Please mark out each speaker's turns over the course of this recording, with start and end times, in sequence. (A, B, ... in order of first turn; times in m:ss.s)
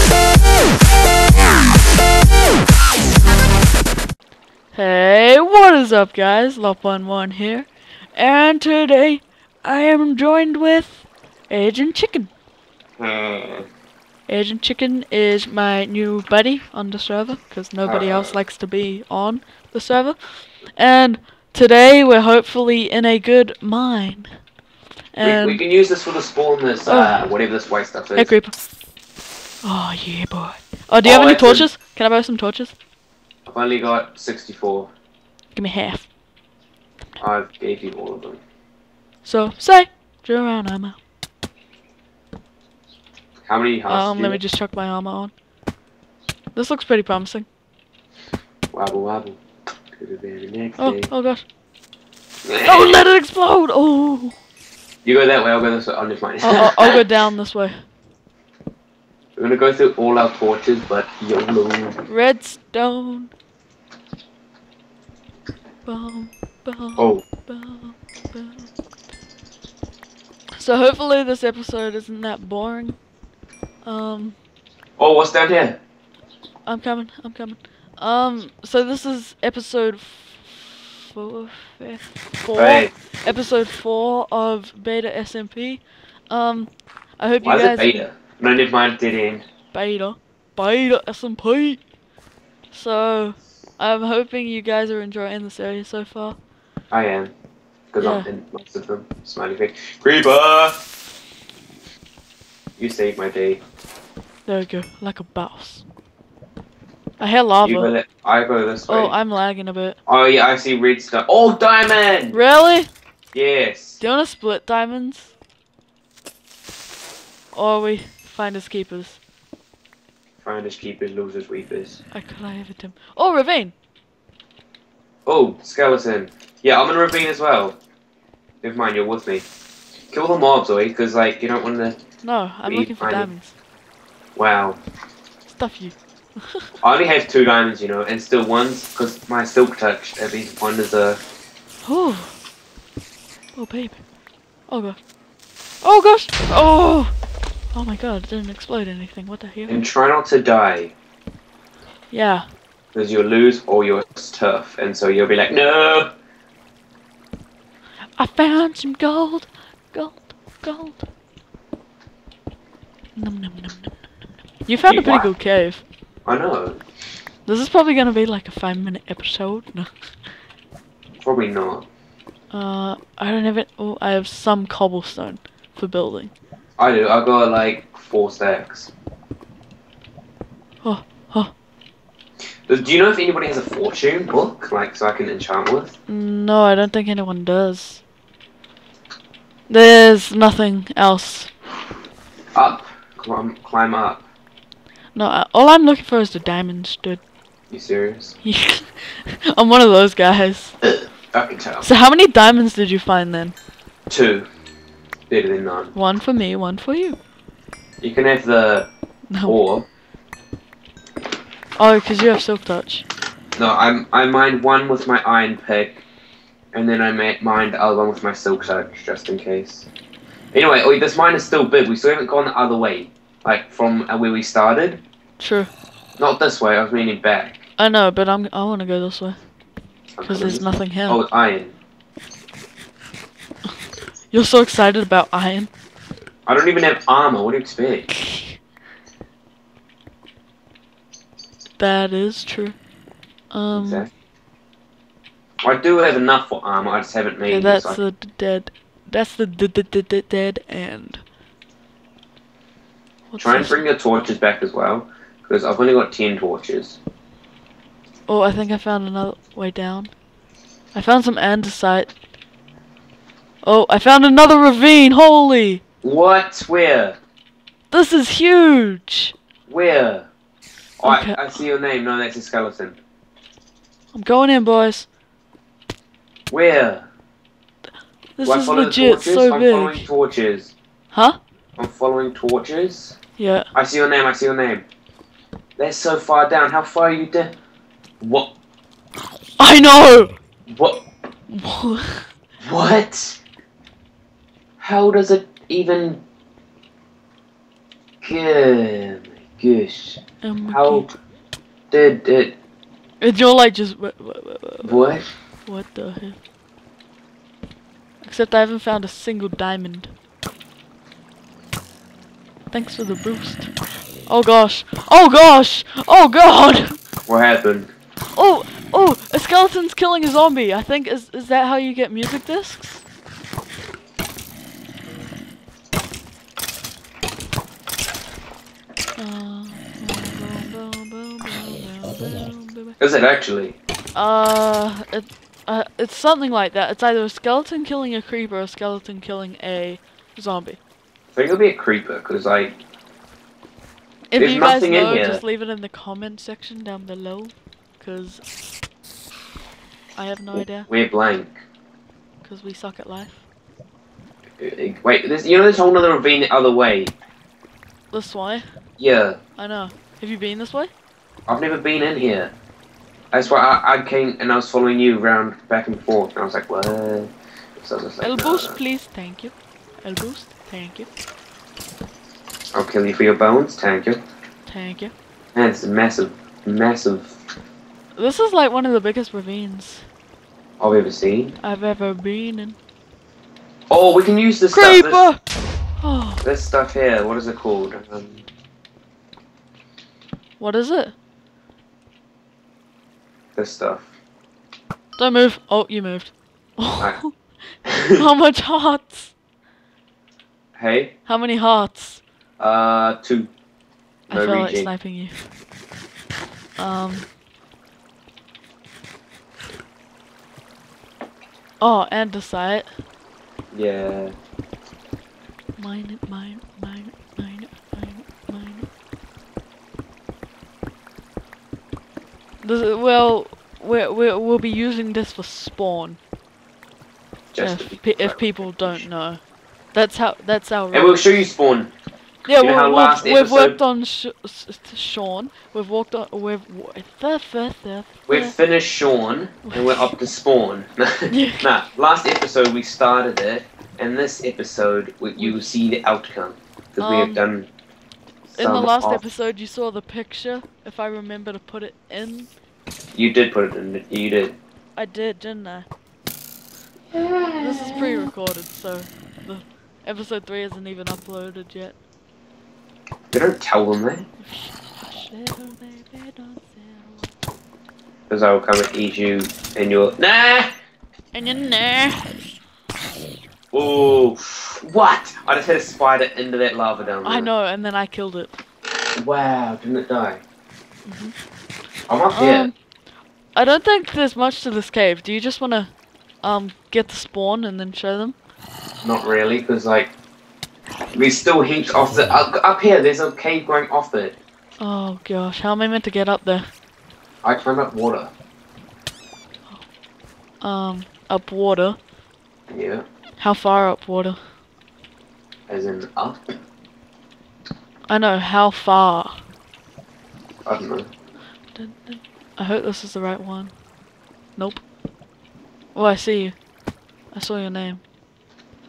0:04.7-0:12.3 A
0:13.0-0:13.7 B
0:14.3-0:20.2 A
0:17.8-0:18.4 B
0:20.8-0:24.3 A
0:25.1-0:25.6 A
0:25.2-0:28.3 B
0:26.8-0:27.3 A
0:28.2-0:28.5 A
0:29.6-0:32.7 A
0:31.0-0:31.7 B
0:33.5-0:34.9 B
0:35.6-0:36.1 A
0:37.2-0:38.4 B
0:39.2-0:41.0 A
0:43.4-0:44.4 B
0:43.9-0:45.3 A
0:46.6-0:47.5 A
0:48.7-0:49.4 B
0:50.0-0:51.1 B
0:50.8-0:51.4 A
0:52.4-0:53.0 B
0:52.6-0:54.4 A
0:55.0-0:57.0 B
0:56.4-0:57.7 A
0:59.4-1:02.0 B
1:02.1-1:03.3 A
1:05.9-1:08.7 A
1:07.0-1:07.3 B
1:10.6-1:13.0 A
1:13.8-1:14.4 A
1:15.0-1:15.8 B
1:16.7-1:28.0 A
1:22.5-1:22.9 B
1:27.4-1:29.4 B
1:29.7-1:31.8 A
1:32.7-1:36.4 A
1:36.9-1:37.3 B
1:37.9-1:40.8 B
1:38.0-1:38.3 A
1:42.8-1:43.6 B
1:44.5-1:45.8 A
1:47.2-1:47.9 A
1:47.6-1:49.1 B
1:48.9-1:50.0 A
1:50.1-1:52.4 B
1:52.3-1:52.9 A
1:53.3-1:54.0 B
1:54.0-1:55.3 A
1:57.5-1:59.2 A
2:00.4-2:02.0 B
2:02.1-2:03.7 A
2:05.3-2:07.8 B
2:08.6-2:09.5 B
2:10.1-2:12.0 B
2:12.2-2:13.5 A
2:12.7-2:13.3 B
2:14.4-2:14.8 B
2:15.5-2:16.7 A
2:16.8-2:21.2 B
2:21.8-2:22.3 A
2:23.6-2:24.0 A
2:24.7-2:25.0 A
2:25.8-2:27.1 A
2:27.7-2:29.8 A
2:29.7-2:30.9 B
2:32.1-2:32.5 A
2:32.9-2:36.1 B
2:38.2-2:41.1 A
2:43.2-2:44.0 A
2:44.6-2:45.8 A
2:44.9-2:45.3 B
2:46.2-2:46.8 B
2:47.5-2:49.9 A
2:51.2-2:51.9 B
2:52.5-2:56.3 A
2:56.8-2:58.9 B
3:00.8-3:01.5 A
3:02.7-3:05.9 B
3:06.1-3:08.0 A
3:09.7-3:11.5 A
3:12.6-3:14.2 B
3:15.2-3:17.2 A
3:17.7-3:18.4 B
3:18.4-3:20.8 A
3:20.8-3:21.9 B
3:21.8-3:23.6 A
3:24.1-3:24.5 B
3:25.3-3:25.9 B
3:26.0-3:27.2 A
3:28.0-3:28.9 B
3:29.3-3:29.6 A
3:29.4-3:29.9 B
3:31.8-3:33.0 A
3:33.6-3:36.0 B
3:36.7-3:39.9 B
3:40.5-3:45.0 B
3:45.4-3:45.7 A
3:46.2-3:47.7 B
3:47.8-3:49.4 A
3:50.2-3:51.7 B
3:50.2-3:51.2 A
3:54.3-3:55.7 A
3:56.5-3:58.1 B
3:58.2-3:58.6 A
4:01.8-4:02.8 A
4:03.5-4:04.1 A
4:03.7-4:04.1 B
4:05.6-4:08.0 B
4:07.5-4:11.2 A
4:13.3-4:13.8 A
4:13.4-4:17.0 B
4:18.3-4:20.1 A
4:20.9-4:22.1 A
4:23.6-4:25.8 A
4:26.0-4:27.2 B
4:27.9-4:29.3 A
4:29.7-4:30.3 B
4:31.0-4:33.0 B
4:31.0-4:31.6 A
4:34.1-4:35.1 A
4:36.5-4:37.1 B
4:38.4-4:40.1 A
4:38.4-4:40.7 B
4:41.1-4:41.4 A
4:41.8-4:43.2 B
4:43.4-4:43.7 A
4:43.7-4:44.9 B
4:45.8-4:47.5 B
4:48.2-4:48.5 B
4:49.6-4:50.4 A
4:50.7-4:51.0 B
4:51.5-4:52.3 A
4:52.6-4:53.4 B
4:54.8-4:56.2 B
4:58.2-5:01.1 B
5:00.4-5:01.1 A
5:01.9-5:02.6 B
5:03.2-5:05.1 A
5:04.8-5:05.3 B
5:05.7-5:06.4 A
5:08.2-5:10.1 A
5:12.7-5:13.7 A
5:14.3-5:17.0 A
5:17.3-5:17.9 B
5:18.4-5:23.0 A
5:29.2-5:33.0 A
5:33.0-5:33.8 B
5:34.2-5:40.8 A
5:41.4-5:42.8 B
5:44.3-5:48.4 A
5:44.4-5:45.4 B
5:50.2-5:50.9 A
5:50.5-5:51.6 B
5:52.4-5:53.4 A
5:54.6-5:57.2 B
5:58.1-5:58.6 A
5:59.0-5:59.4 B
5:59.6-6:00.9 A
6:01.5-6:02.5 B
6:03.3-6:08.8 B
6:08.2-6:11.1 A
6:12.7-6:14.2 B
6:14.7-6:15.1 A
6:15.6-6:17.4 B
6:18.2-6:20.0 A
6:20.8-6:21.6 B
6:21.6-6:22.8 A
6:23.9-6:25.3 B
6:24.7-6:25.4 A
6:26.0-6:26.4 A
6:26.4-6:28.4 B
6:30.6-6:31.1 A
6:33.6-6:34.1 B
6:35.2-6:37.3 A
6:37.8-6:38.2 B
6:38.2-6:39.3 A
6:40.8-6:41.2 B
6:41.3-6:42.2 A
6:42.6-6:43.5 B
6:44.3-6:45.4 A
6:44.3-6:44.9 B
6:46.8-6:47.3 A
6:51.8-6:52.9 A
6:53.7-6:54.4 B
6:55.8-6:58.9 A
7:02.6-7:06.2 A
7:07.5-7:09.0 B
7:07.6-7:09.4 A
7:09.9-7:11.3 A
7:10.9-7:11.9 B
7:12.5-7:18.5 A
7:12.5-7:13.8 B
7:18.3-7:27.7 B
7:19.7-7:20.1 A
7:21.3-7:21.7 A
7:25.4-7:25.7 A
7:27.0-7:27.4 A
7:28.5-7:32.5 A
7:28.6-7:29.2 B
7:33.1-7:34.6 B
7:35.0-7:35.9 A
7:37.1-7:38.2 B
7:37.6-7:42.0 A
7:43.3-7:44.3 B
7:44.4-7:47.3 A
7:48.3-7:50.7 B
7:51.3-7:52.3 A
7:53.7-7:57.5 B
7:57.2-7:58.6 A
7:59.2-8:00.4 B
8:01.0-8:01.3 A
8:02.1-8:02.7 B
8:02.3-8:02.7 A
8:03.6-8:05.9 A
8:06.4-8:08.4 A
8:09.0-8:10.1 B
8:11.1-8:14.4 B
8:14.8-8:16.7 A
8:17.4-8:18.3 B
8:20.6-8:22.0 A
8:22.7-8:23.0 B
8:23.4-8:24.4 A
8:25.7-8:26.6 B
8:28.1-8:29.4 A
8:30.6-8:31.1 B
8:31.8-8:33.7 A
8:34.6-8:34.8 A
8:36.0-8:36.6 A
8:37.3-8:38.0 A